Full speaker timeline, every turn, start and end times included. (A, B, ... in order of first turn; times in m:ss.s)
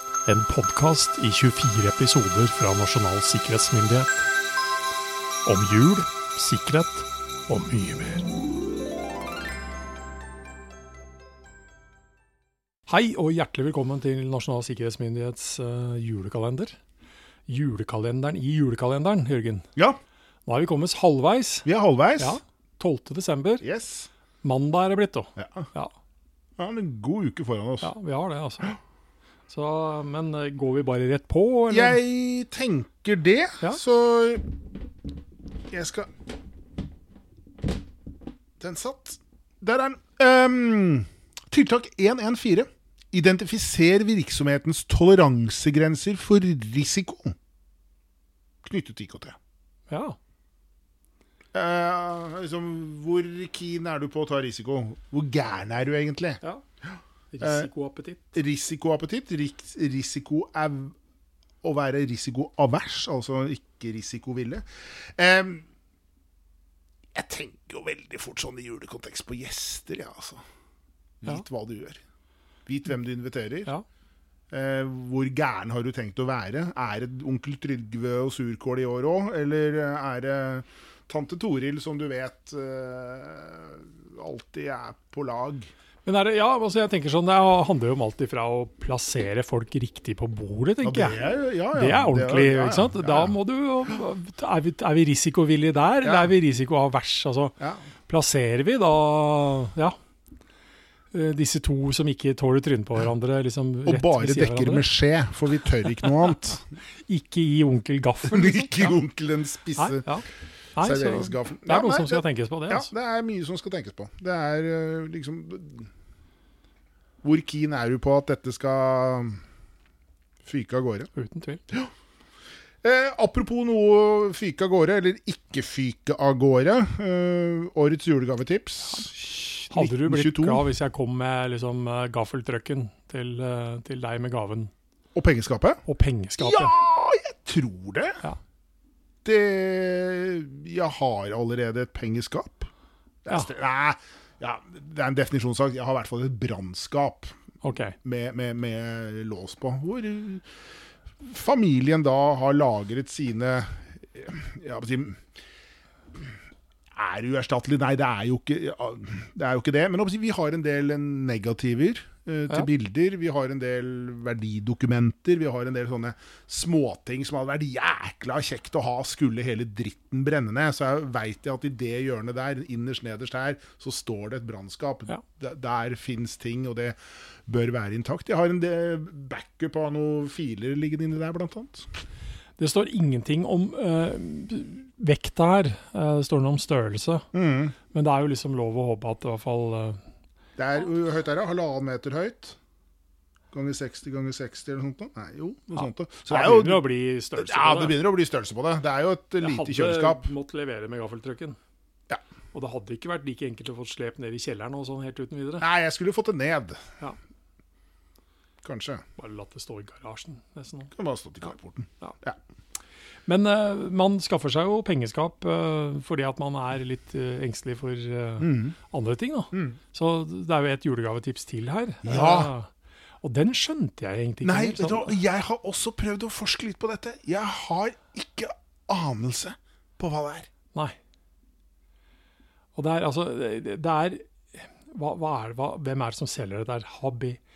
0:00.2-0:04.3 A
0:05.4-0:08.3 A
0:12.9-0:16.8 A
0:17.5-0:19.7 A
0:20.4-0:21.6 A
0:21.6-0:22.4 B
0:22.2-0:23.6 A
0:23.6-0:24.1 B
0:24.4-0:25.9 A
0:25.4-0:25.7 B
0:26.6-0:27.9 B
0:27.8-0:28.8 A
0:29.5-0:32.0 A
0:31.7-0:34.5 B
0:35.7-0:36.1 B
0:38.6-0:47.4 B
0:48.6-0:49.4 B
0:49.9-0:50.2 A
0:51.5-0:56.4 B
0:57.3-0:58.2 A
0:57.4-0:57.7 B
0:58.3-1:00.9 B
1:01.6-1:04.6 B
1:05.2-1:05.6 B
1:07.1-1:10.4 B
1:11.2-1:12.0 B
1:12.6-1:13.7 B
1:14.5-1:25.7 B
1:26.0-1:31.2 A
1:30.8-1:33.4 B
1:31.7-1:37.6 A
1:36.0-1:36.3 B
1:38.1-1:39.9 A
1:41.1-1:44.8 A
1:43.8-1:46.6 B
1:47.0-1:49.0 A
1:48.2-1:50.0 B
1:49.8-1:52.9 A
1:50.8-1:55.9 B
1:57.2-1:59.4 B
2:00.4-2:01.1 B
2:01.1-2:01.6 A
2:02.8-2:10.6 B
2:09.7-2:14.7 A
2:15.1-2:15.8 B
2:15.8-2:16.7 A
2:16.4-2:18.2 B
2:19.2-2:22.7 B
2:23.2-2:27.3 B
2:27.6-2:28.0 A
2:28.0-2:30.4 B
2:31.2-2:35.2 B
2:36.9-2:57.0 B
2:57.5-3:01.9 B
3:02.6-3:07.3 A
3:07.3-3:07.7 B
3:07.9-3:10.0 A
3:10.6-3:12.6 B
3:13.5-3:20.3 B
3:15.8-3:18.0 A
3:19.4-3:21.6 A
3:22.5-3:25.6 A
3:25.6-3:26.8 B
3:28.6-3:29.0 B
3:29.2-3:30.9 A
3:30.9-3:32.4 B
3:33.3-3:42.7 A
3:38.4-3:38.8 B
3:39.5-3:39.8 B
3:42.0-3:42.5 B
3:43.2-3:45.2 A
3:44.4-3:50.5 B
3:52.7-3:57.4 A